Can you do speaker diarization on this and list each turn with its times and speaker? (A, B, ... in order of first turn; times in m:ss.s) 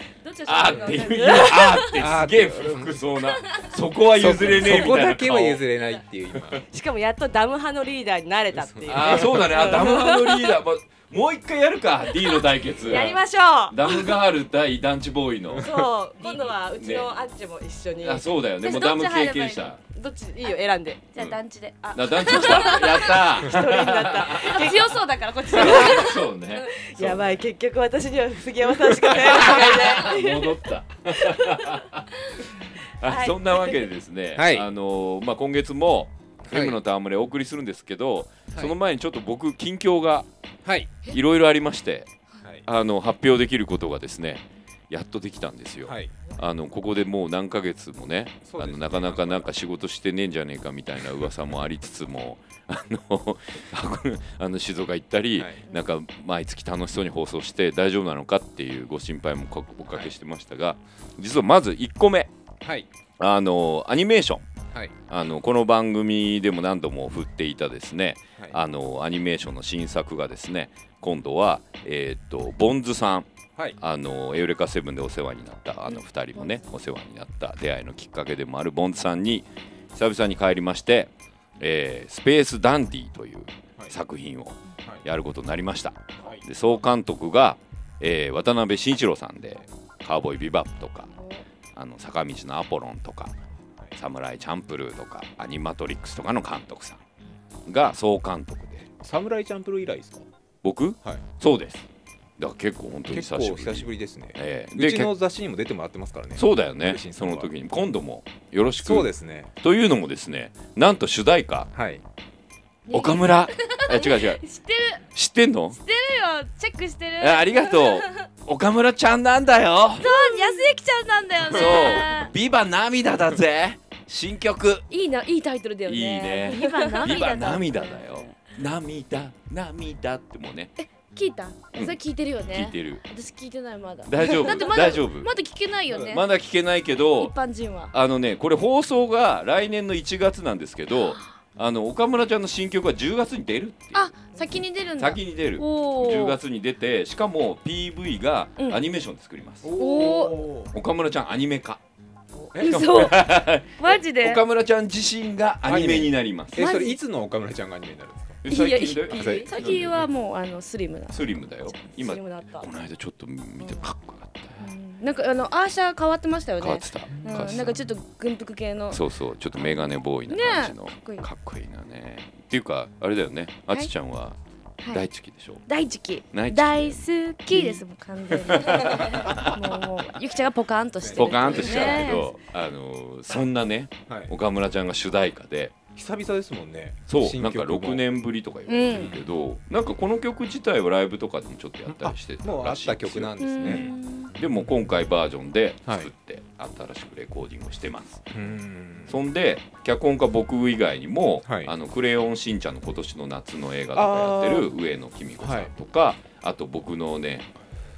0:00.2-0:01.4 A
0:00.4-0:05.6 B
0:00.9-0:02.1 C
0:01.9-0:03.0 D
0:04.1-0:06.6 D
0:06.7-0:10.6 C
0:08.5-0:09.4 D
0:08.9-0:13.2 B
0:12.8-0:14.2 C
0:13.7-0:15.7 B
0:15.6-0:18.2 C
0:16.2-0:16.4 A
0:16.7-0:17.1 B
0:18.0-0:19.8 B
0:18.6-0:19.8 A
0:19.9-0:21.0 C
0:21.1-0:23.2 A
0:21.9-0:24.8 B
0:22.2-0:31.7 C
0:24.5-0:26.2 A
0:25.5-0:27.4 B
0:29.1-0:29.5 D
0:29.2-0:32.0 B
0:33.0-0:40.3 B
0:33.0-0:33.8 C
0:34.3-0:34.7 D
0:36.4-0:36.8 D
0:40.6-0:41.0 D
0:41.1-0:42.1 B
0:42.6-1:02.3 B
0:45.8-0:46.1 D
0:48.4-0:49.5 D
0:55.4-0:55.6 D
0:59.9-1:00.1 D
1:03.2-1:04.5 B
1:05.1-1:31.1 B
1:31.1-1:31.4 A
1:31.7-1:33.3 B
1:34.0-1:37.0 B
1:37.6-1:38.9 B
1:39.0-1:40.2 D
1:40.6-1:41.8 B
1:42.4-1:45.1 B
1:43.1-1:47.5 D
1:46.4-1:49.1 B
1:48.8-1:49.5 D
1:49.6-1:51.7 B
1:51.7-1:52.0 D
1:52.9-1:55.0 A
1:52.9-1:54.4 B
1:55.1-1:55.8 B
1:55.8-1:58.0 A
1:57.2-2:00.1 B
2:00.0-2:02.3 A
2:01.5-2:04.8 B
2:04.9-2:08.3 A
2:05.9-2:10.7 B
2:10.8-2:16.2 A
2:12.5-2:13.0 B
2:14.0-2:15.3 B
2:15.9-2:16.2 D
2:16.1-2:17.3 B
2:17.2-2:17.9 A
2:17.9-2:24.1 B
2:23.9-2:26.4 A
2:25.0-2:29.7 B
2:29.6-2:30.7 D
2:29.8-2:30.4 A
2:30.7-2:31.8 B
2:32.5-2:32.9 D
2:32.6-2:34.4 A
2:32.6-2:36.7 B
2:35.6-2:38.4 D
2:36.6-2:37.0 A
2:38.4-2:40.1 B
2:38.5-2:41.8 A
2:39.1-2:39.5 D
2:39.2-2:39.5 C
2:41.1-2:44.6 B
2:41.9-2:42.7 C
2:44.6-2:49.0 A
2:46.6-2:47.9 B
2:47.1-2:47.5 D
2:48.9-2:54.4 B
2:50.3-2:51.2 A
2:54.8-2:55.0 A
2:54.9-2:55.6 B
2:55.6-3:02.3 A
2:56.3-2:57.0 B
2:58.3-2:59.5 B
3:01.0-3:01.9 D
3:01.2-3:05.7 B
3:01.5-3:02.0 C
3:04.1-3:04.3 D
3:05.9-3:08.0 D
3:07.1-3:18.3 B
3:08.7-3:09.1 A
3:08.9-3:09.2 D
3:11.9-3:14.7 D
3:13.4-3:14.3 A
3:15.8-3:16.1 D
3:18.3-3:19.2 D
3:19.1-3:27.5 B
3:21.4-3:21.7 D
3:23.9-3:24.7 D
3:25.4-3:25.7 D